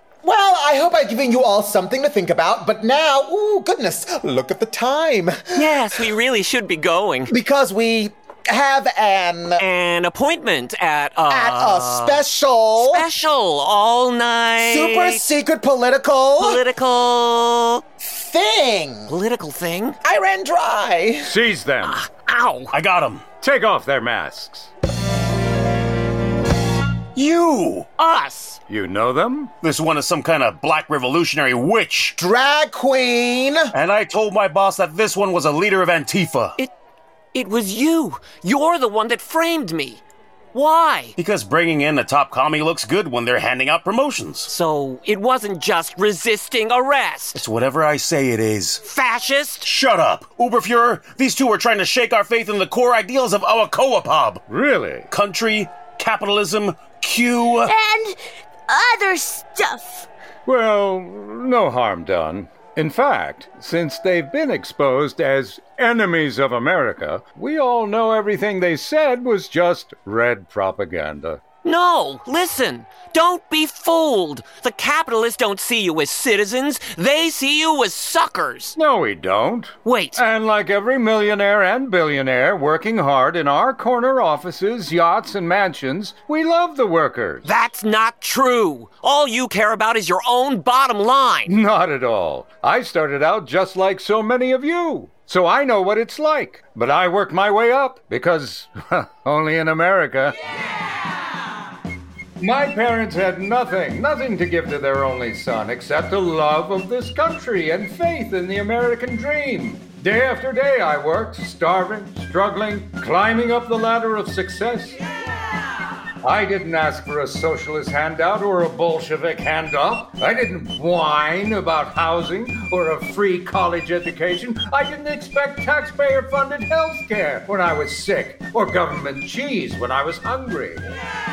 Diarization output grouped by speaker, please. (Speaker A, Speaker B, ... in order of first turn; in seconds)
Speaker A: 0.2-6.0, 7.3-9.6, 11.3-13.1, 14.6-16.6, 18.0-19.1, 20.0-21.4, 32.2-33.7
Speaker B: 5.5-7.3, 9.6-12.2, 12.8-15.2, 16.4-17.8, 19.1-20.0, 21.8-22.7, 28.0-28.6, 37.3-40.0, 40.5-41.1, 44.5-47.4, 48.8-49.7, 71.6-78.7, 79.8-80.2, 87.4-91.5
Speaker C: 21.2-22.0, 23.4-24.7, 28.7-29.5, 54.5-55.1, 60.5-71.4, 78.7-87.4, 91.5-100.3, 102.4-115.0, 116.2-130.8
Speaker D: 22.7-23.3, 27.1-27.9, 29.6-32.1, 33.7-36.6, 41.2-44.5, 47.3-48.8, 49.6-54.4, 55.1-57.7
Speaker E: 57.6-60.1